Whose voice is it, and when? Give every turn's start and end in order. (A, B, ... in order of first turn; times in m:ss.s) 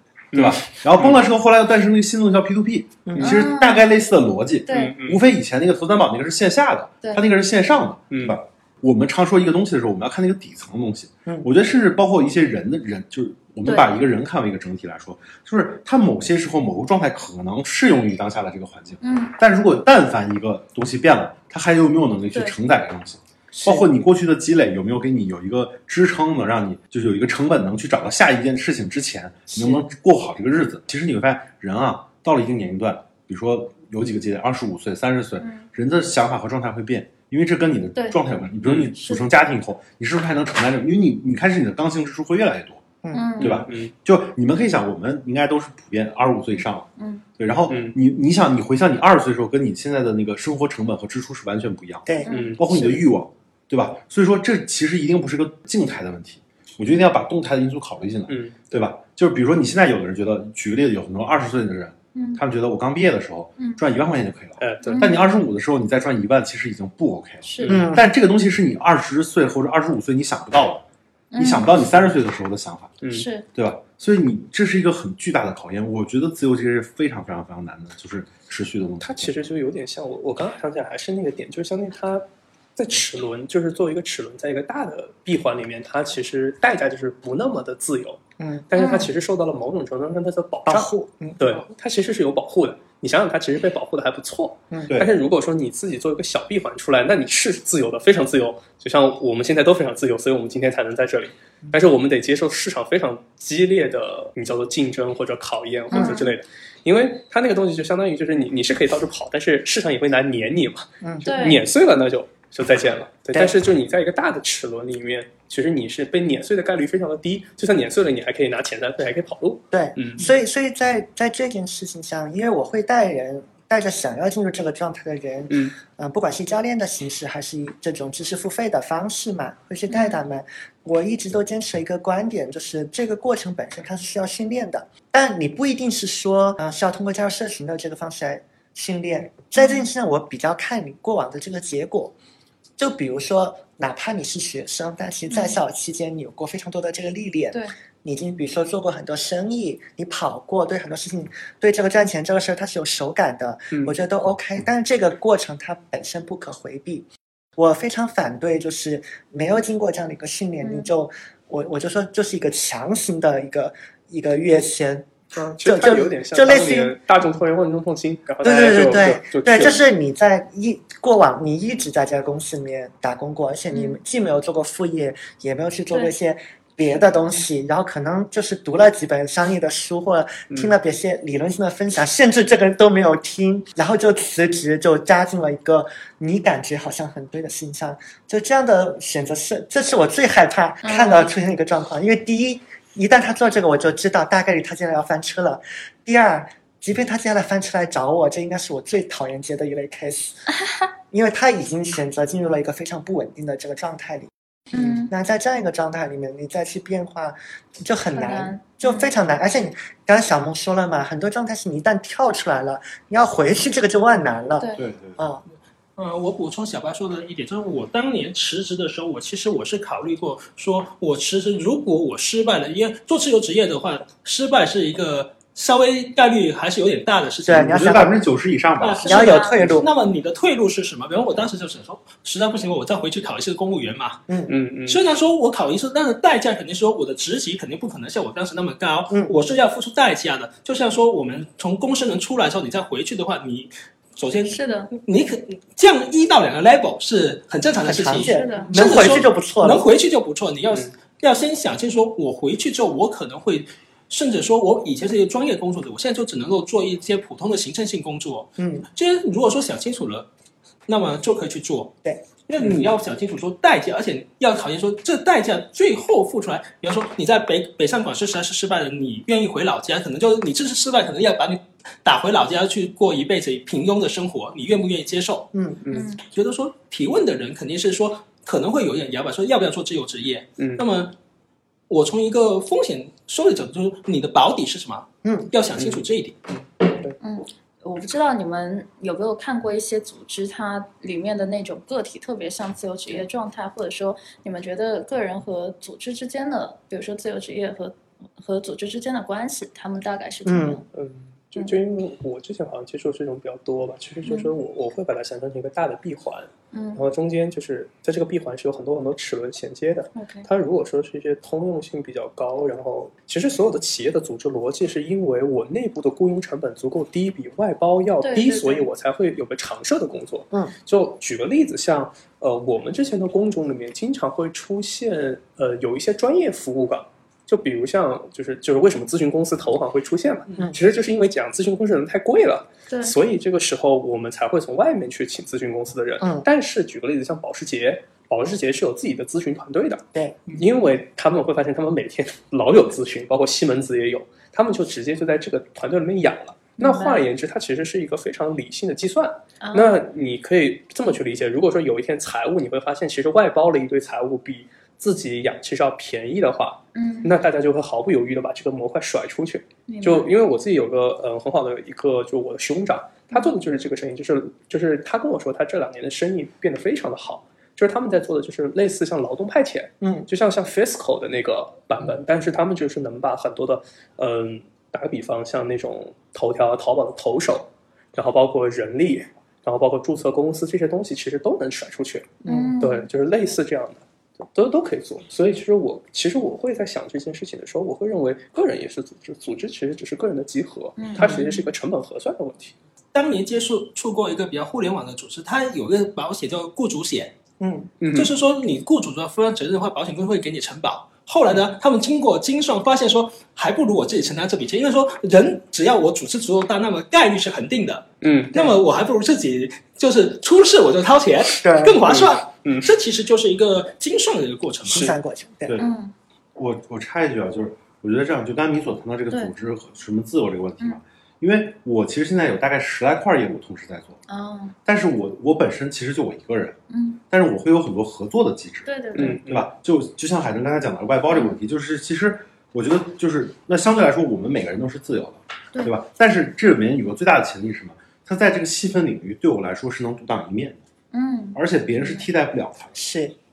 0:00.3-0:01.2 A
0:00.3-0:42.8 B
0:03.1-0:03.4 C
0:03.2-0:03.9 D
0:04.7-0:05.0 D
0:04.7-0:05.2 A
0:08.1-0:08.4 A
0:13.6-0:13.9 D
0:19.0-0:19.4 D
0:35.4-0:35.6 D
0:38.6-0:38.9 A
0:39.0-0:39.2 D
0:43.0-0:43.4 C
0:43.1-0:43.6 D
0:43.4-0:43.9 A
0:43.4-1:10.8 B
0:47.0-0:47.2 D
0:47.7-0:48.0 A
0:52.1-0:53.0 C
0:52.2-0:52.6 D
0:52.3-0:52.6 A
0:58.3-0:58.8 A
1:02.2-1:02.4 D
1:04.6-1:05.2 A
1:04.8-1:05.2 D
1:07.4-1:07.8 D
1:07.6-1:07.9 A
1:07.7-1:08.1 C
1:11.3-1:11.7 D
1:11.4-1:19.3 B
1:13.1-1:13.5 D
1:19.0-1:22.2 A
1:22.8-2:00.3 A
1:28.4-1:28.7 C
1:28.8-1:29.1 D
1:30.7-1:31.4 C
1:45.9-1:46.3 D
1:45.9-1:46.2 C
1:51.0-1:51.3 C
1:51.2-1:51.6 D
1:59.7-2:22.2 C
2:05.5-2:05.8 A
2:09.9-2:10.2 D
2:19.6-2:19.9 D
2:22.8-2:47.0 C
2:25.3-2:25.6 D
2:40.6-2:40.9 D
2:45.4-2:49.8 A
2:48.4-3:20.4 C
2:53.7-2:54.0 D
3:00.5-3:00.8 A
3:10.8-3:11.3 D
3:20.6-3:20.8 D
3:21.1-3:35.4 C
3:24.7-3:25.1 D
3:28.1-3:29.1 D
3:34.8-3:35.2 B
3:36.0-3:48.0 E
3:47.5-3:48.2 C
3:47.5-3:49.2 B
3:48.8-3:54.2 E
3:49.0-3:49.6 D
3:49.0-3:49.9 C
3:54.5-3:55.0 A
3:54.9-4:20.3 E
4:04.5-4:04.9 D
4:07.8-4:09.8 C
4:08.2-4:09.0 D
4:18.6-4:18.9 C
4:20.9-4:22.0 E
4:22.5-4:35.5 E
4:35.5-4:35.8 C
4:35.8-4:36.1 A
4:35.9-4:36.2 D
4:36.2-4:41.1 E
4:40.6-4:40.8 A
4:41.9-4:46.4 E
4:45.2-4:45.5 C
4:45.8-4:46.0 A
4:47.2-5:00.9 D
5:00.5-5:00.8 C
5:00.9-6:32.8 A
5:04.2-5:04.5 D
5:06.7-5:07.0 D
5:10.2-5:10.5 D
5:18.2-5:18.9 D
5:32.9-5:33.1 D
5:36.2-5:36.5 C
5:40.1-5:40.4 C
5:46.8-5:47.2 D
5:49.6-5:50.0 D
5:57.0-5:57.3 D
5:59.9-6:00.3 D
6:10.0-6:10.3 C
6:22.4-6:22.7 C
6:22.5-6:23.1 D
6:31.0-6:31.6 D
6:31.2-6:31.4 C
6:33.1-6:37.3 E
6:37.6-6:37.9 C
6:38.0-6:38.3 A
6:38.1-6:55.1 E
6:48.2-6:48.7 A
6:51.6-6:52.2 C
6:52.1-6:52.9 A
6:54.8-6:55.8 C
6:55.8-6:56.1 D
6:56.6-7:04.2 B
7:04.3-7:04.8 D
7:04.8-7:06.8 B
7:06.9-7:07.2 D
7:07.3-7:20.8 B
7:08.8-7:09.4 D
7:09.2-7:09.7 A
7:11.3-7:11.6 D
7:21.1-7:22.3 D
7:21.6-7:23.0 B
7:23.0-7:23.4 C